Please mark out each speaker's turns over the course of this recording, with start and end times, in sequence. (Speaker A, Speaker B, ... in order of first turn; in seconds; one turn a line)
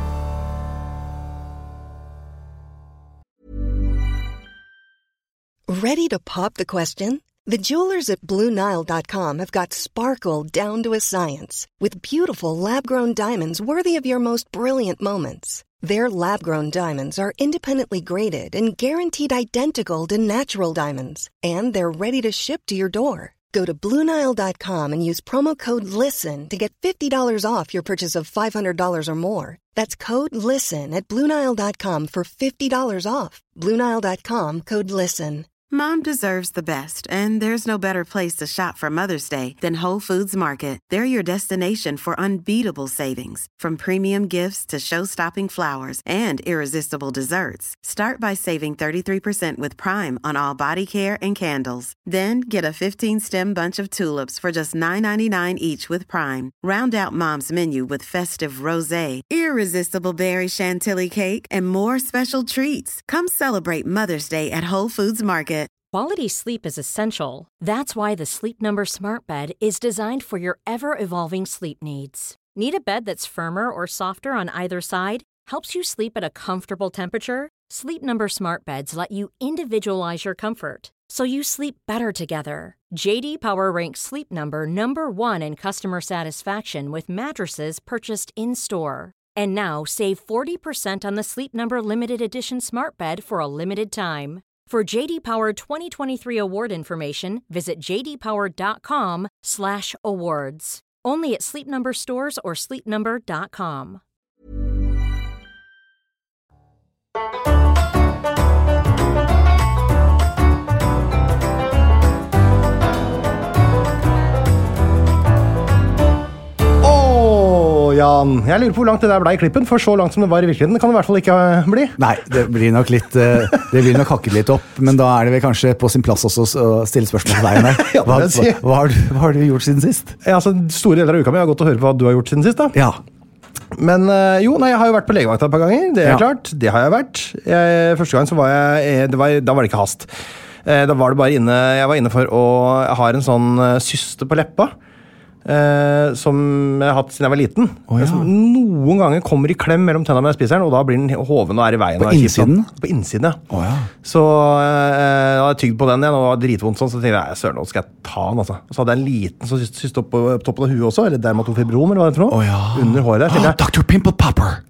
Speaker A: 5.7-35.5
Speaker B: 35.7-65.7
Speaker C: 65.9-104.0
Speaker D: 116.8-122.0
Speaker E: 122.0-130.1
Speaker D: 127.3-128.6
Speaker D: 130.2-132.8
Speaker E: 132.7-133.0
Speaker D: 133.7-140.1
Speaker D: 140.6-144.7
Speaker D: 145.4-153.4
Speaker E: 147.9-148.3
Speaker E: 152.0-152.7
Speaker E: 153.5-153.9
Speaker D: 154.0-163.6
Speaker E: 162.3-164.6